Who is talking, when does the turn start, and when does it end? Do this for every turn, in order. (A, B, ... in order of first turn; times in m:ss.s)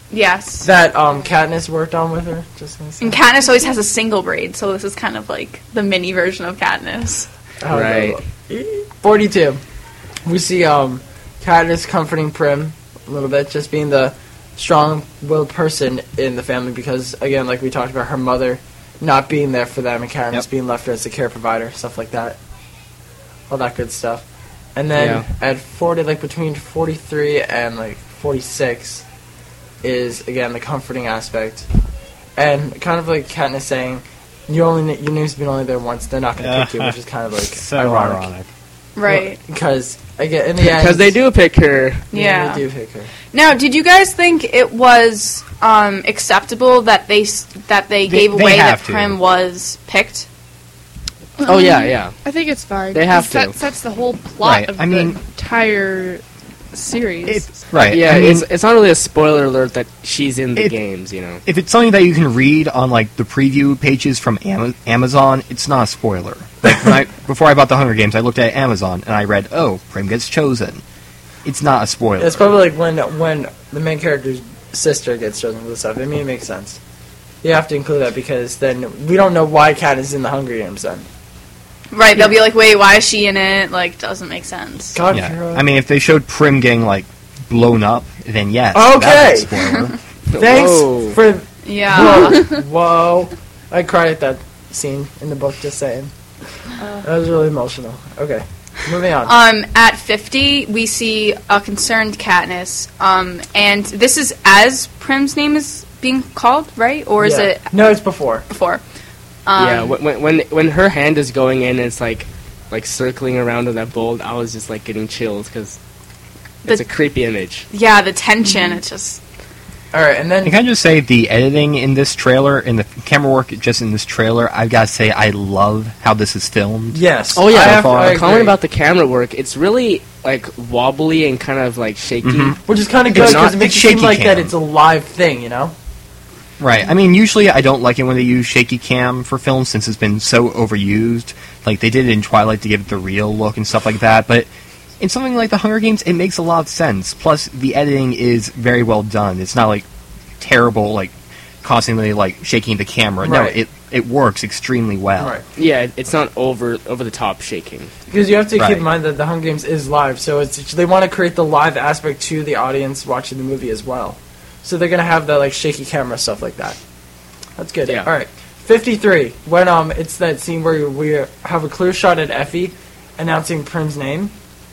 0:00.1-0:00.7 A
0:00.6-0:03.2 B
0:03.0-0:07.3 A
0:07.6-0:09.6 B
0:07.7-0:08.2 C
0:10.2-0:22.4 B
0:23.5-0:29.0 B
0:24.9-0:25.2 C
0:29.8-0:31.6 B
0:32.4-0:38.3 B
0:36.4-0:38.5 D
0:39.0-0:39.4 A
0:39.0-0:41.2 B
0:40.6-0:42.0 C
0:42.1-0:43.1 B
0:42.1-0:42.6 A
0:43.3-0:50.3 A
0:48.0-0:49.2 D
0:51.4-0:56.2 E
0:51.4-0:52.2 C
0:52.9-0:53.6 C
0:54.4-0:55.2 D
0:56.7-0:57.6 E
0:57.2-0:58.5 D
0:57.8-1:01.4 C
1:01.4-1:10.8 D
1:11.4-1:12.6 D
1:12.2-1:16.8 B
1:17.4-1:21.0 B
1:21.9-1:25.0 A
1:24.9-1:25.6 B
1:25.1-1:30.0 D
1:28.7-1:29.5 B
1:30.3-1:31.2 C
1:30.4-1:36.1 B
1:31.6-1:32.5 A
1:37.0-1:39.3 B
1:39.2-1:47.7 A
1:47.2-1:48.4 B
1:48.5-1:48.8 A
1:49.4-1:49.9 A
1:49.6-1:55.8 C
1:56.6-1:57.6 C
1:57.7-1:59.2 A
1:59.9-2:00.6 B
2:00.4-2:08.2 D
2:06.9-2:08.6 B
2:07.3-2:13.6 C
2:12.2-2:12.6 D
2:12.6-2:15.7 B
2:13.1-2:14.5 D
2:16.6-2:24.5 D
2:25.0-2:29.9 D
2:30.4-2:35.3 D
2:33.2-2:33.6 B
2:35.6-2:37.9 C
2:38.1-2:46.8 B
2:38.6-2:38.9 D
2:47.6-2:54.3 B